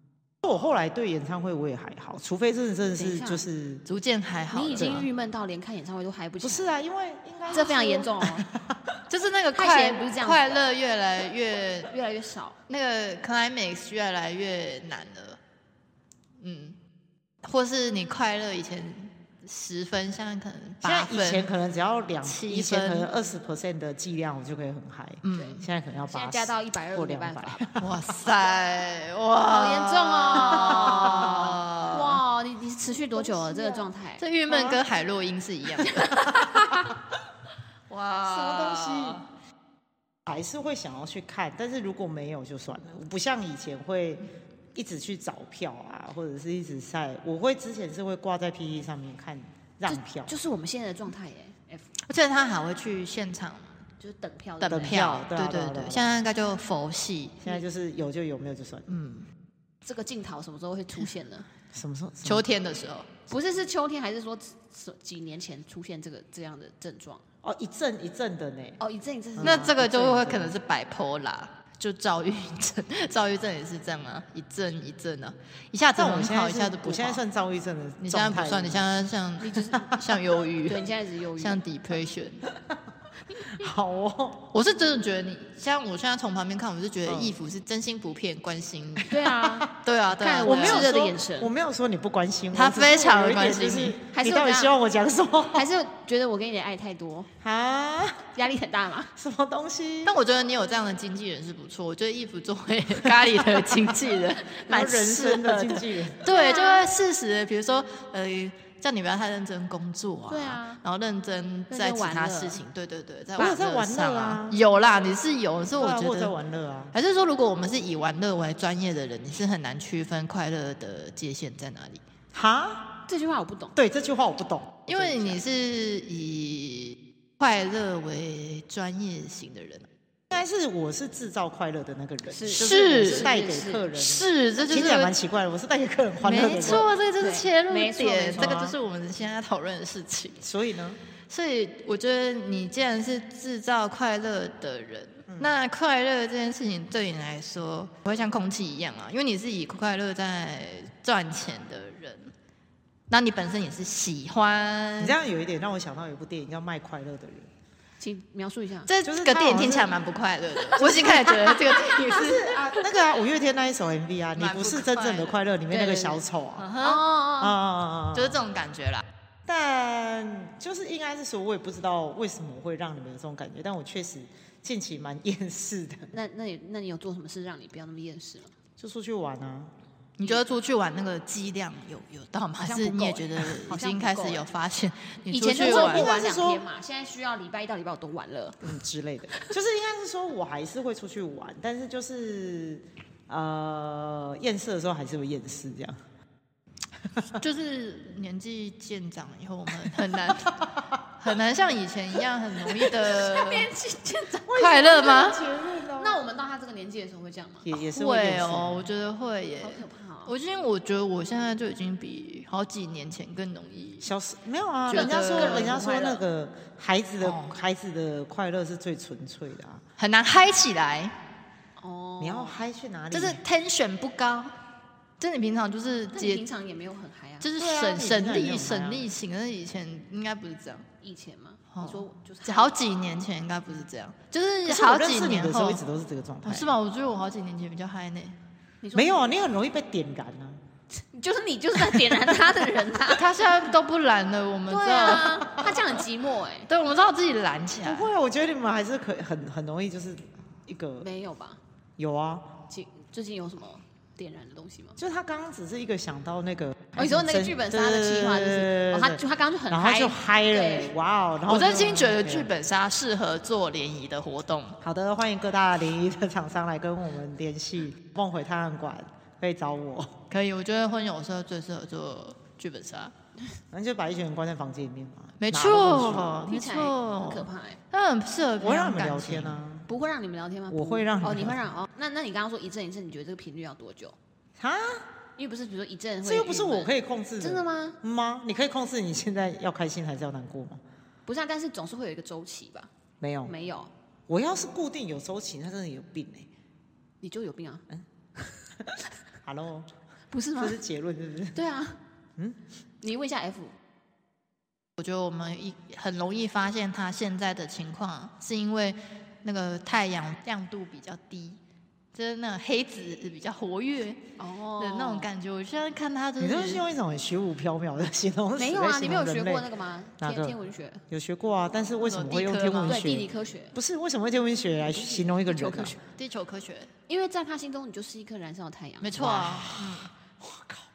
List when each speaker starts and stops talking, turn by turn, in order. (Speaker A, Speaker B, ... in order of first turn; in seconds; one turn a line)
Speaker A: 0.4-3.8
Speaker B: 3.0-3.5
Speaker C: 3.9-5.0
Speaker B: 4.5-6.7
Speaker A: 4.8-5.1
Speaker A: 6.4-9.0
Speaker B: 7.5-8.5
Speaker C: 9.1-11.9
Speaker B: 9.5-10.7
Speaker B: 11.8-12.6
Speaker C: 12.7-15.4
Speaker C: 16.4-16.8
Speaker C: 17.4-21.5
Speaker A: 20.8-28.1
Speaker C: 22.2-23.1
Speaker C: 25.2-25.6
Speaker B: 25.3-27.6
Speaker C: 27.8-32.2
Speaker B: 29.4-34.2
Speaker A: 30.5-31.2
Speaker A: 33.1-33.9
Speaker C: 34.2-36.2
Speaker A: 34.5-34.8
Speaker B: 35.8-36.9
Speaker A: 36.1-36.9
Speaker C: 37.9-39.2
Speaker A: 38.2-39.2
Speaker A: 40.2-50.3
Speaker B: 49.9-51.9
Speaker C: 52.0-53.8
Speaker B: 54.0-55.0
Speaker C: 54.6-57.4
Speaker A: 54.7-56.1
Speaker A: 57.4-58.9
Speaker C: 58.9-59.3
Speaker B: 59.8-61.5
Speaker A: 61.7-62.5
Speaker C: 62.2-63.1
Speaker B: 63.3-67.2
Speaker A: 67.4-68.8
Speaker B: 68.8-69.8
Speaker A: 69.3-70.5
Speaker C: 69.4-77.2
Speaker A: 75.9-78.8
Speaker C: 78.0-82.5
Speaker B: 79.4-79.9
Speaker B: 80.7-81.6
Speaker A: 83.4-84.5
Speaker C: 84.5-89.2
Speaker A: 87.1-87.4
Speaker B: 89.1-91.5
Speaker A: 89.2-89.7
Speaker C: 89.8-91.0
Speaker A: 90.4-95.7
Speaker C: 92.5-94.0
Speaker B: 94.1-94.8
Speaker B: 95.5-97.3
Speaker A: 97.4-98.3
Speaker B: 98.3-99.1
Speaker A: 99.2-100.2
Speaker C: 100.0-116.3
Speaker A: 104.7-106.2
Speaker B: 106.2-106.9
Speaker B: 110.3-110.8
Speaker B: 111.7-112.6
Speaker A: 113.3-114.6
Speaker A: 115.8-116.9
Speaker C: 116.9-122.0
Speaker A: 122.3-123.0
Speaker B: 123.1-123.8
Speaker A: 123.8-125.4
Speaker C: 124.9-129.9
Speaker A: 130.3-136.9
Speaker B: 132.3-133.9
Speaker C: 132.5-133.3
Speaker C: 133.9-135.1
Speaker C: 136.2-140.4
Speaker B: 136.5-138.8
Speaker A: 138.4-138.7
Speaker A: 140.4-141.0
Speaker C: 141.3-152.3
Speaker A: 145.3-145.5
Speaker C: 153.1-155.2
Speaker A: 155.0-157.5
Speaker B: 158.0-158.9
Speaker C: 158.9-162.9
Speaker A: 159.0-159.9
Speaker B: 160.6-162.2
Speaker A: 162.1-166.7
Speaker C: 164.4-165.4
Speaker B: 165.7-166.2
Speaker C: 166.6-167.0
Speaker B: 166.8-167.6
Speaker A: 167.4-168.4
Speaker C: 168.1-169.1
Speaker A: 169.4-176.1
Speaker B: 176.1-178.5
Speaker A: 178.8-179.7
Speaker C: 180.2-186.1
Speaker B: 182.6-184.5
Speaker B: 185.3-188.7
Speaker A: 185.6-186.6
Speaker A: 188.6-196.0
Speaker C: 197.3-203.7
Speaker B: 203.0-204.6
Speaker A: 204.5-206.2
Speaker C: 204.5-205.5
Speaker B: 205.9-207.7
Speaker A: 207.6-208.9
Speaker C: 207.9-214.1
Speaker B: 209.6-210.3
Speaker A: 214.0-219.8
Speaker C: 214.9-216.2
Speaker B: 214.9-215.9
Speaker C: 217.2-217.5
Speaker C: 220.0-221.2
Speaker B: 221.8-222.6
Speaker A: 222.2-223.4
Speaker C: 223.1-224.6
Speaker C: 225.2-226.4
Speaker B: 226.1-227.5
Speaker C: 227.4-230.8
Speaker A: 227.6-229.1
Speaker B: 231.0-232.7
Speaker C: 231.7-235.8
Speaker A: 234.7-236.8
Speaker C: 236.4-238.4
Speaker B: 238.8-239.2
Speaker A: 238.9-240.6
Speaker B: 240.9-243.4
Speaker C: 243.1-245.8
Speaker B: 244.7-246.7
Speaker C: 246.7-248.1
Speaker A: 247.8-251.1
Speaker B: 251.0-251.6
Speaker A: 252.0-252.5
Speaker B: 252.7-255.0
Speaker A: 255.0-262.5
Speaker B: 256.9-260.9
Speaker C: 261.5-264.8
Speaker A: 264.8-270.2
Speaker C: 270.3-273.1
Speaker A: 273.7-276.5
Speaker C: 275.4-279.6
Speaker B: 276.4-277.8
Speaker A: 278.6-279.9
Speaker B: 279.9-284.2
Speaker A: 280.7-281.6
Speaker A: 284.6-285.1
Speaker B: 285.4-288.0
Speaker A: 286.2-290.8
Speaker B: 291.2-292.9
Speaker A: 293.2-293.5
Speaker B: 293.4-293.9
Speaker A: 294.3-296.5
Speaker B: 297.2-297.8
Speaker A: 299.4-299.9
Speaker B: 300.3-300.8
Speaker A: 300.6-301.6
Speaker B: 301.5-302.0
Speaker B: 303.0-303.7
Speaker C: 305.0-311.6
Speaker C: 312.1-316.9
Speaker B: 314.4-315.3
Speaker A: 316.4-320.6
Speaker B: 318.6-321.0
Speaker A: 321.1-325.9
Speaker C: 322.0-323.1
Speaker B: 322.9-323.8
Speaker B: 324.9-326.0
Speaker C: 326.1-326.9
Speaker B: 327.1-329.2
Speaker C: 329.0-330.1
Speaker A: 329.2-330.9